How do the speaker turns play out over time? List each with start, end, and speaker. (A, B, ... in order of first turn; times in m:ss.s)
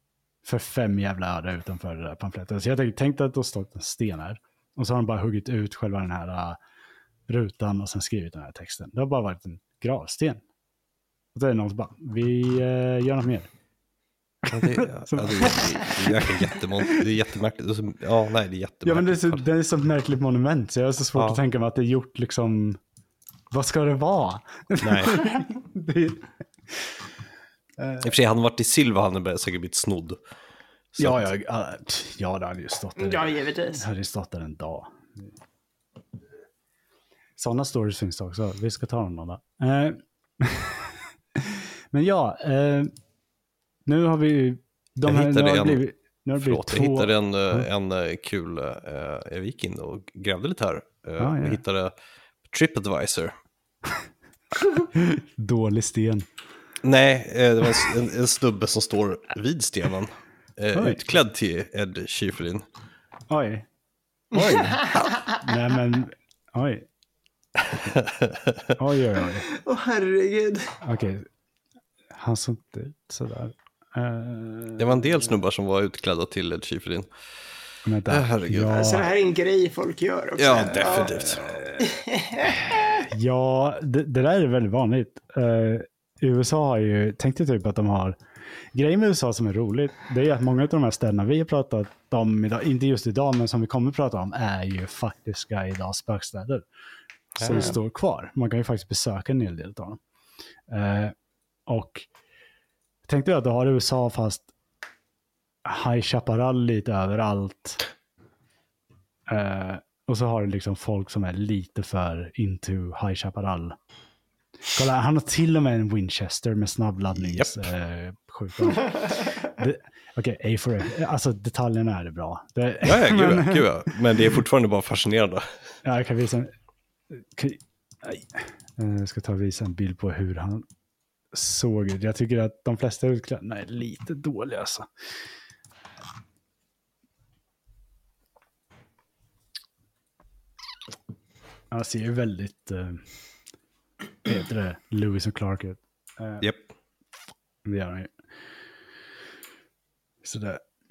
0:00.4-0:06.6 A
0:07.3-0:10.4 A
0:11.3-0:13.5 A
0:14.4-0:17.1 A
0:14.5-0:19.4 B
0:18.8-0:22.8 A
0:21.1-0:21.4 B
0:23.5-0:27.0 A
0:24.8-0:25.2 B
0:27.8-0:28.1 A
0:28.0-0:30.2 B
0:30.9-0:31.3 B
0:31.0-0:35.3 A
0:33.0-0:33.8 C
0:37.4-0:42.9 A
0:43.9-0:47.7 A
0:45.0-0:45.8 B
0:46.4-0:51.9 B
0:51.2-0:51.6 A
0:52.4-0:53.3 B
0:54.9-0:56.3 A
0:56.8-1:02.7 B
1:00.7-1:01.0 A
1:03.3-1:03.7 A
1:04.3-1:06.9 A
1:04.4-1:05.4 C
1:07.7-1:08.7 B
1:08.8-1:09.5 A
1:09.5-1:10.8 C
1:10.8-1:11.3 A
1:12.1-1:15.3 A
1:14.8-1:17.1 B
1:17.8-1:19.1 A
1:18.1-1:18.7 B
1:18.7-1:21.2 C
1:20.4-1:21.6 B
1:20.8-1:22.0 A
1:21.8-1:23.0 C
1:22.6-1:28.2 A
1:28.7-1:36.6 A
1:37.4-1:37.6 B
1:37.4-1:40.0 A
1:40.7-1:41.1 A
1:41.7-1:42.1 A
1:43.0-1:44.5 A
1:45.6-1:47.8 A
1:49.3-1:53.8 A
1:54.7-2:03.7 A
1:57.2-1:57.6 B
2:02.8-2:05.7 B
2:05.8-2:06.5 A
2:07.1-2:10.6 A
2:11.3-2:14.9 A
2:21.7-2:23.0 A
2:24.2-2:26.5 A
2:27.6-2:28.1 A
2:30.2-2:30.6 A